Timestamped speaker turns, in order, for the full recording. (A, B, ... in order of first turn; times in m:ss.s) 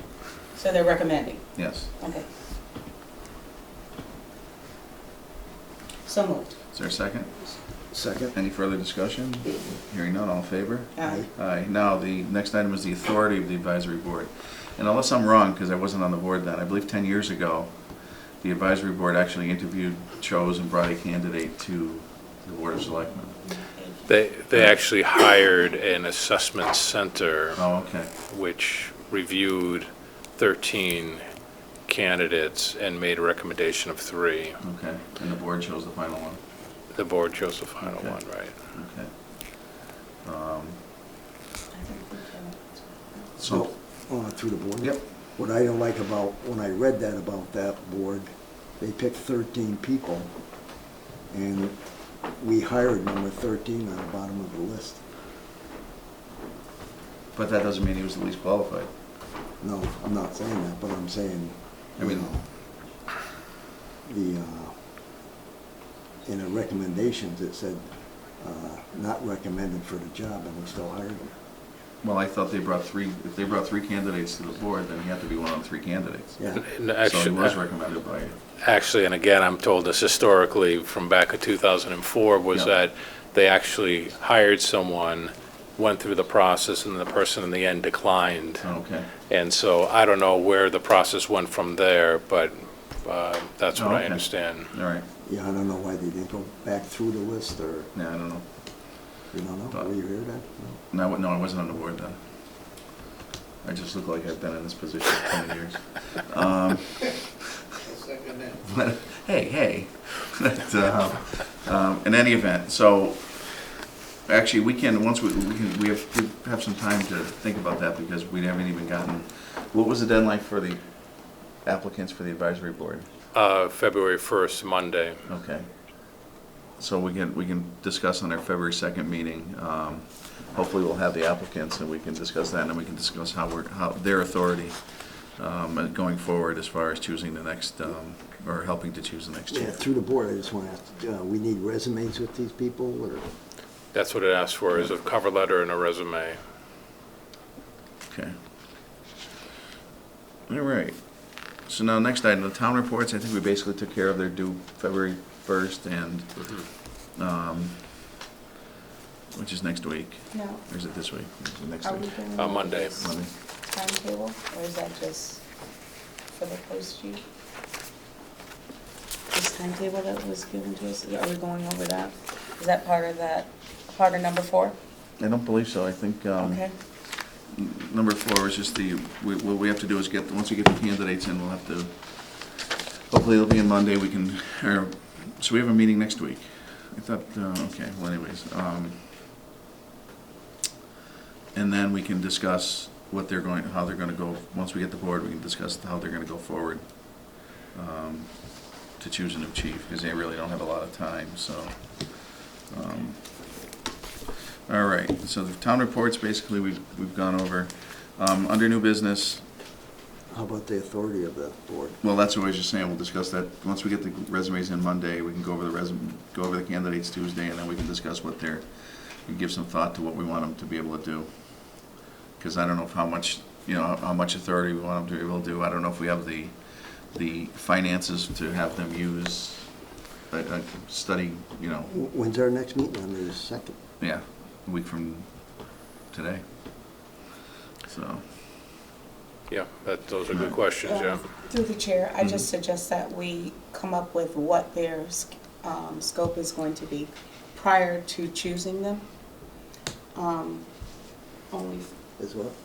0:00.5-0:02.3 A
0:01.6-0:01.9 B
0:06.0-0:06.6 A
0:06.7-0:23.5 B
0:07.9-0:08.3 C
0:11.0-0:11.3 A
0:11.0-0:11.3 C
0:23.5-0:24.0 A
0:24.0-0:27.6 D
0:27.6-0:28.1 B
0:28.3-0:31.2 D
0:31.9-0:34.6 D
0:34.6-0:36.4 B
0:36.9-0:38.5 D
0:37.8-0:40.9 B
0:41.7-0:43.4 A
0:43.4-0:43.7 B
0:43.4-0:55.0 C
0:57.3-0:58.9 B
0:59.6-1:02.5 C
1:02.0-1:02.3 B
1:04.0-1:05.2 C
1:06.2-1:11.4 C
1:12.0-1:18.4 B
1:16.4-1:16.7 C
1:16.6-1:17.6 D
1:18.6-1:28.7 D
1:22.5-1:22.8 B
1:28.6-1:29.1 B
1:29.3-1:34.7 D
1:33.7-1:35.1 B
1:35.2-1:37.9 C
1:37.9-1:39.2 B
1:39.3-1:40.8 C
1:39.7-1:40.2 B
1:40.9-1:42.9 B
1:43.6-1:47.4 B
1:48.5-1:53.7 B
1:54.2-2:03.1 B
2:03.3-2:05.2 D
2:05.2-2:06.2 B
2:06.8-2:19.9 B
2:19.5-2:23.3 C
2:23.9-2:26.4 D
2:28.1-2:28.4 B
2:30.5-2:38.1 B
2:39.3-2:43.3 B
2:40.3-2:40.6 A
2:41.8-2:45.4 A
2:42.4-2:43.0 D
2:46.3-2:47.2 A
2:49.3-2:54.8 A
2:55.2-3:09.1 B
2:56.4-2:56.7 A
3:11.5-3:23.7 B
3:24.7-3:29.5 B
3:30.3-3:32.0 C
3:32.0-3:51.9 B
3:51.9-3:53.8 C
3:54.0-3:56.4 B
3:57.9-3:58.2 B
3:59.5-4:01.3 D
4:00.8-4:09.1 A
4:02.2-4:02.5 B
4:10.1-4:12.0 A
4:12.2-4:12.5 C